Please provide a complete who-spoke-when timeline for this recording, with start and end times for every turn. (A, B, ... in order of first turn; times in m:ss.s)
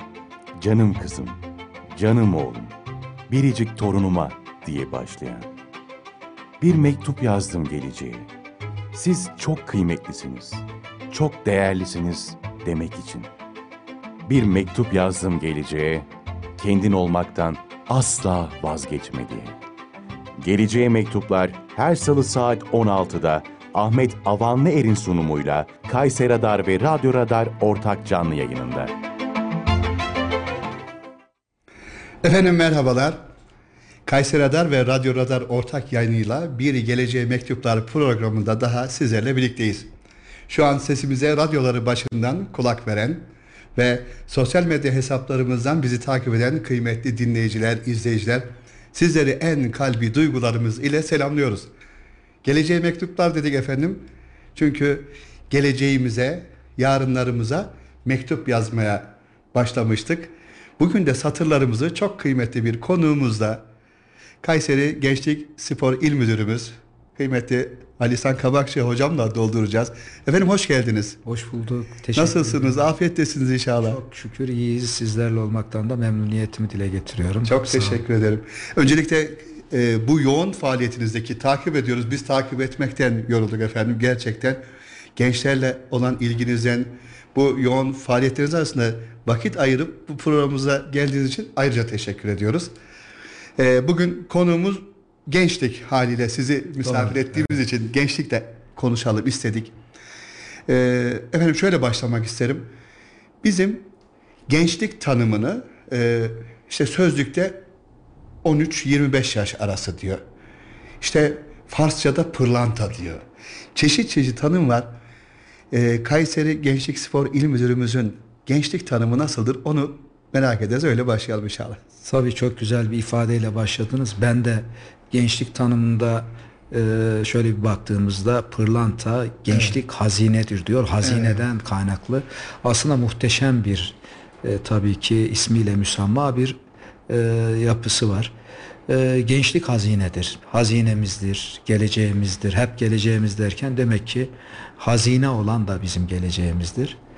0:00.6-0:01.4 A
0:01.9-0:02.7 A
0:03.3-0:05.5 A
0:06.6-0:08.3 A
0:08.9-0:13.3 A
0:14.2-0:19.6 A
0:20.4-0:28.9 A
0:32.2-0:33.2 B
0:34.0-0:39.9 B
0:40.5-0:51.7 B
0:52.4-1:03.6 B
1:04.4-1:11.2 B
1:11.2-1:12.8 C
1:12.1-1:14.0 B
1:13.8-1:18.0 C
1:17.4-1:24.6 B
1:25.1-1:32.7 B
1:33.6-1:39.7 B
1:36.8-1:37.3 C
1:40.7-1:42.7 B
1:43.4-1:43.8 B
1:44.5-1:47.6 B
1:48.4-1:50.2 B
1:51.0-1:53.2 B
1:53.7-1:54.9 B
1:55.7-2:01.8 B
2:02.0-2:18.3 C
2:11.0-2:11.4 B
2:18.9-2:27.0 C